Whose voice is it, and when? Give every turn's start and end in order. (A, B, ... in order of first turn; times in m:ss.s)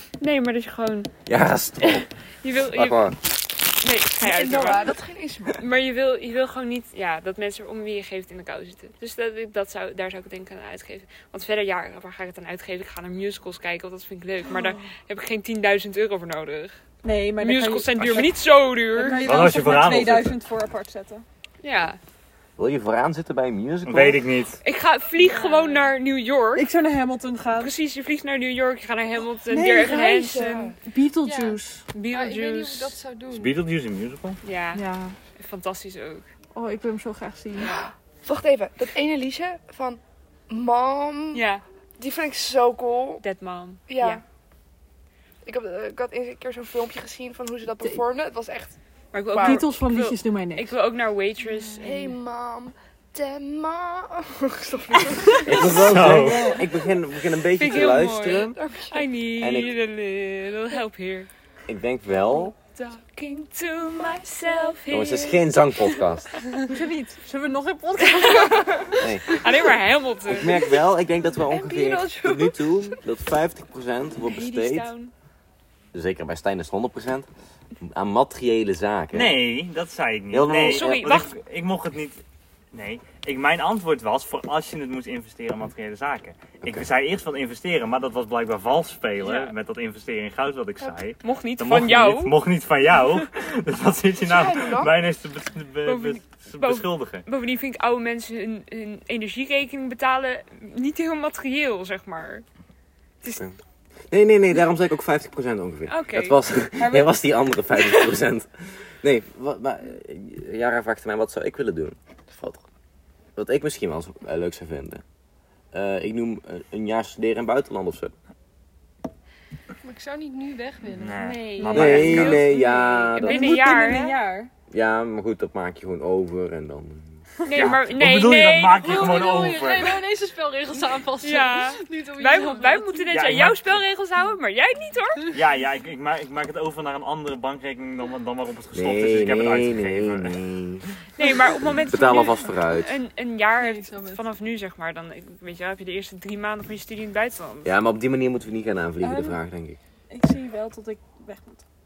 0:00.2-0:01.1 A
0:01.2-0:02.1 B
0:01.8-0:04.9 A
0:02.7-0:03.2 B
0:04.2-0:05.6 C
0:05.5-0:16.8 A
0:17.0-0:18.2 D
0:17.4-0:19.2 A
0:18.9-0:21.2 D
0:19.2-0:20.4 E
0:21.6-0:22.0 A
0:22.6-0:24.2 B
0:23.8-0:24.6 E
0:24.6-0:26.6 A
0:25.2-0:25.9 D
0:26.6-0:27.7 D
0:27.5-0:30.7 A
0:29.5-0:30.1 D
0:29.8-0:30.7 C
0:30.8-0:31.8 D
0:31.1-0:33.6 F
0:31.9-0:33.0 A
0:33.3-0:34.4 E
0:34.4-0:34.8 A
0:34.7-0:35.2 D
0:35.3-0:36.3 A
0:36.5-0:37.8 D
0:38.2-0:41.4 C
0:41.3-0:41.6 A
0:42.0-0:43.2 C
0:43.2-0:44.2 A
0:43.9-0:44.2 C
0:45.4-0:48.8 C
0:49.1-0:52.1 A
0:49.3-0:49.7 C
0:49.4-0:50.7 D
0:51.8-0:56.2 C
0:55.4-0:58.6 B
0:55.7-0:56.5 E
0:57.6-1:01.3 A
0:58.5-0:59.0 C
0:59.4-0:59.7 B
1:01.7-1:02.5 B
1:02.7-1:06.0 A
1:04.9-1:06.3 B
1:06.7-1:08.7 D
1:08.2-1:10.6 A
1:09.0-1:09.2 B
1:10.3-1:14.9 B
1:11.5-1:13.0 C
1:14.2-1:15.1 A
1:15.9-1:17.3 B
1:17.8-1:19.4 B
1:19.1-1:37.2 E
1:20.3-1:21.1 B
1:20.6-1:21.3 A
1:29.2-1:29.5 A
1:31.2-1:32.4 A
1:34.2-1:34.9 C
1:35.8-1:42.4 A
1:44.1-1:52.6 B
1:45.9-1:46.4 A
1:53.4-1:55.0 B
1:55.7-1:58.1 B
1:59.8-2:01.3 F
2:01.0-2:02.5 E
2:01.1-2:04.1 A
2:01.7-2:03.8 B
2:03.2-2:04.5 D
2:04.7-2:07.2 B
2:07.4-2:09.3 A
2:07.5-2:10.0 E
2:08.8-2:13.2 F
2:11.2-2:15.3 A
2:13.1-2:13.8 E
2:15.3-2:20.4 E
2:18.7-2:20.9 B
2:21.2-2:27.7 A
2:21.6-2:22.9 B
2:23.6-2:24.2 F
2:27.6-2:29.8 B
2:30.1-2:31.6 D